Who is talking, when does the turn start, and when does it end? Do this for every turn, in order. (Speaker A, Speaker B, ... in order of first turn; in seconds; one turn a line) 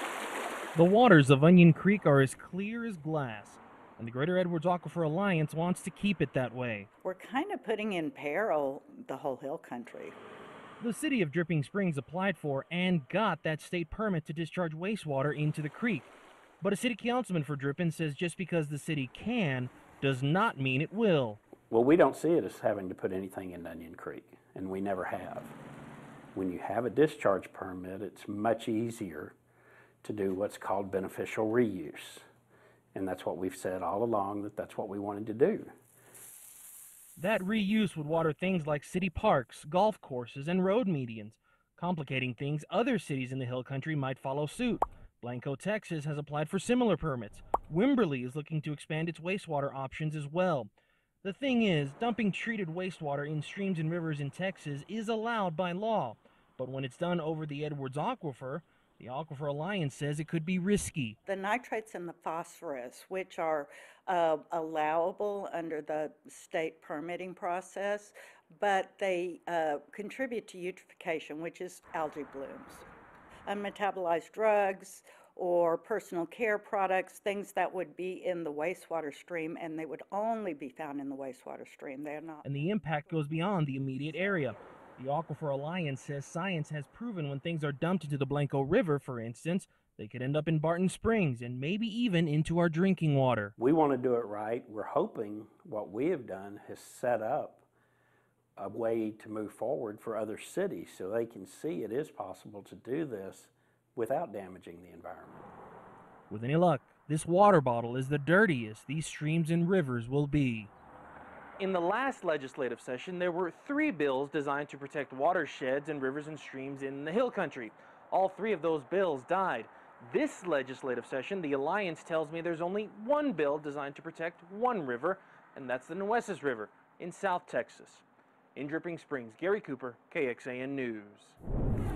Speaker A: 0.7-6.9
Speaker B: 7.0-10.2
Speaker A: 10.8-16.1
Speaker A: 16.6-21.4
Speaker C: 21.7-25.6
Speaker C: 26.3-29.4
Speaker C: 30.0-32.2
Speaker C: 32.9-35.7
Speaker A: 37.2-50.7
Speaker A: 51.2-61.2
Speaker B: 61.2-72.8
Speaker B: 73.5-82.4
Speaker A: 82.4-93.5
Speaker C: 93.6-97.7
Speaker C: 98.6-105.4
Speaker A: 106.3-110.7
Speaker A: 111.6-128.0
Speaker A: 128.5-131.4